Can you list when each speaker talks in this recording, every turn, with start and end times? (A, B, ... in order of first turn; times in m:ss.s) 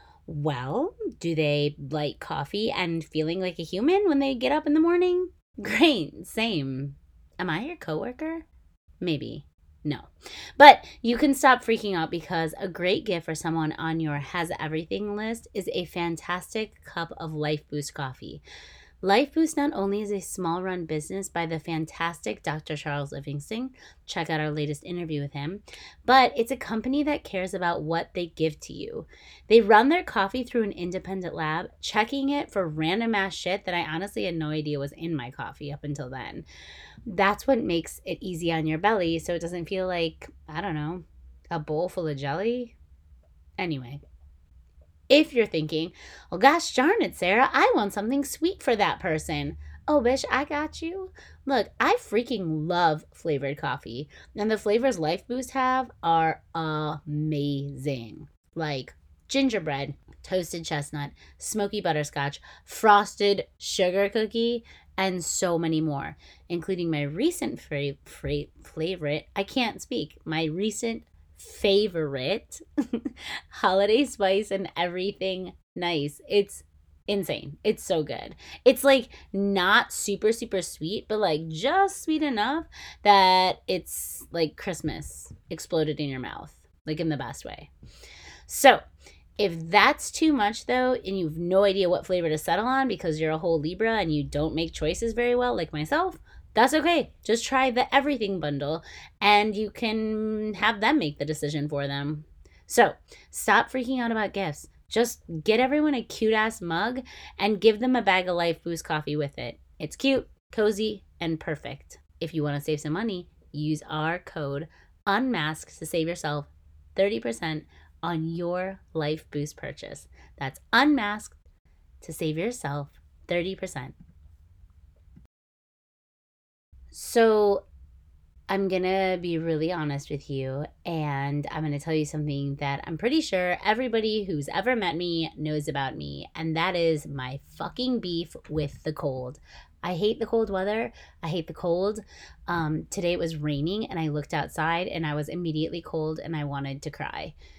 0:00.3-0:08.4 A
0:09.0-0:18.4 A
0:19.0-0:36.4 A
0:37.0-0:42.7 A
0:43.6-0:44.0 A
0:45.1-1:27.7 A
1:28.5-1:28.8 A
1:29.4-2:01.3 A
2:02.0-2:03.9 A
2:06.9-2:07.6 A
2:08.5-2:27.3 A